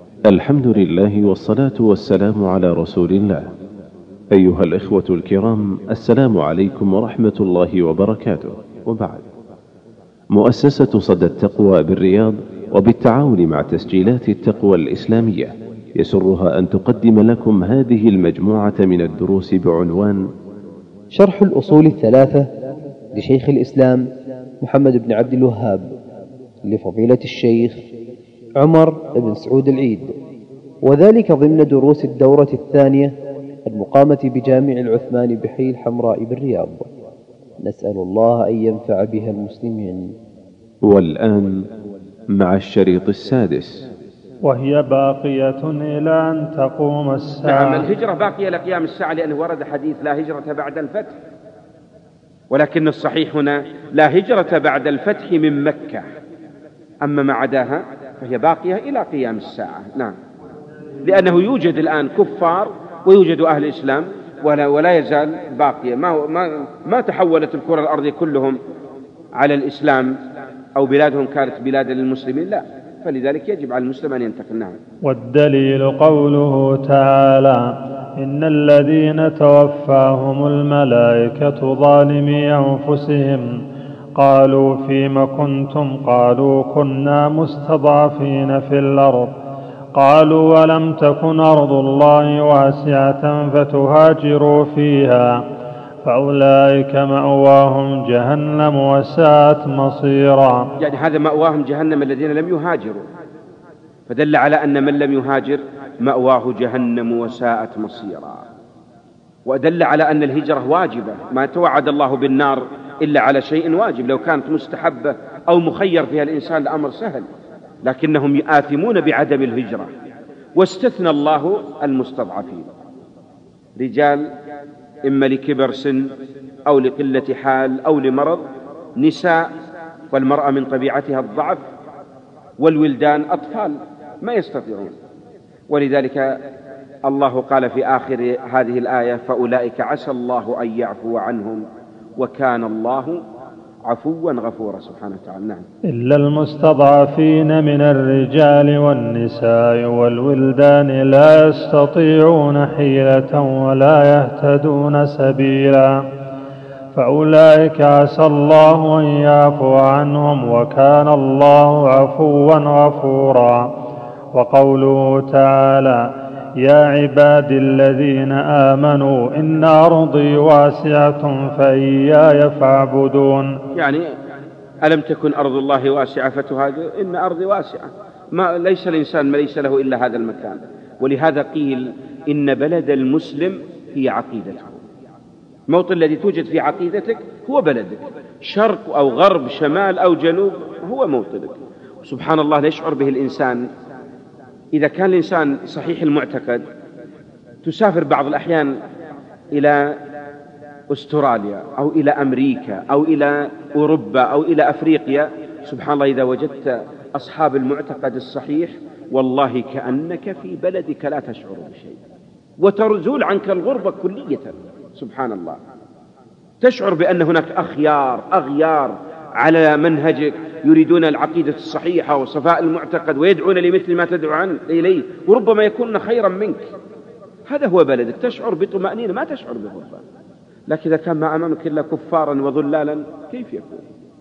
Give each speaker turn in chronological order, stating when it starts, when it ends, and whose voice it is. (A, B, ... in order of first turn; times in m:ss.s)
0:00.3-0:03.5 A
0:04.3-0:09.2 A
0:10.3-0:20.3 A
0:21.1-0:22.5 B
0:23.2-0:24.1 B
0:24.6-0:25.9 B
0:26.6-0:27.8 B
0:28.6-0:30.2 B
0:30.8-0:33.1 B
0:33.7-0:36.9 B
0:37.6-0:40.1 B
0:40.8-0:41.7 A
0:42.3-0:43.9 A
0:44.5-0:47.9 C
0:47.4-0:51.2 D
0:52.5-0:56.1 D
0:57.0-1:00.2 D
1:01.0-1:08.6 D
1:09.3-1:10.2 D
1:10.8-1:14.8 D
1:15.0-1:23.6 C
1:24.2-1:29.4 C
1:29.9-1:35.5 C
1:36.0-1:40.7 C
1:40.8-1:43.1 D
1:44.1-1:48.5 D
1:49.5-1:57.3 D
1:57.8-1:59.9 D
2:00.6-2:02.7 D
2:03.8-2:04.3 D
2:05.0-2:06.2 D
2:06.7-2:08.5 D
2:09.0-2:09.5 D
2:10.1-2:11.6 D
2:12.6-2:15.0 D
2:15.7-2:16.4 D
2:17.1-2:21.7 D
2:22.2-2:23.2 D
2:23.8-2:25.7 D
2:25.9-2:36.0 C
2:36.9-2:43.8 C
2:44.3-2:53.6 C
2:53.8-2:54.1 D
2:54.8-3:04.8 D
3:05.7-3:13.7 D
3:14.7-3:16.7 D
3:17.6-3:18.8 D
3:19.5-3:20.0 D
3:20.9-3:32.0 D
3:32.6-3:35.6 D
3:36.6-3:46.7 D
3:47.5-3:50.0 D
3:50.7-3:53.8 D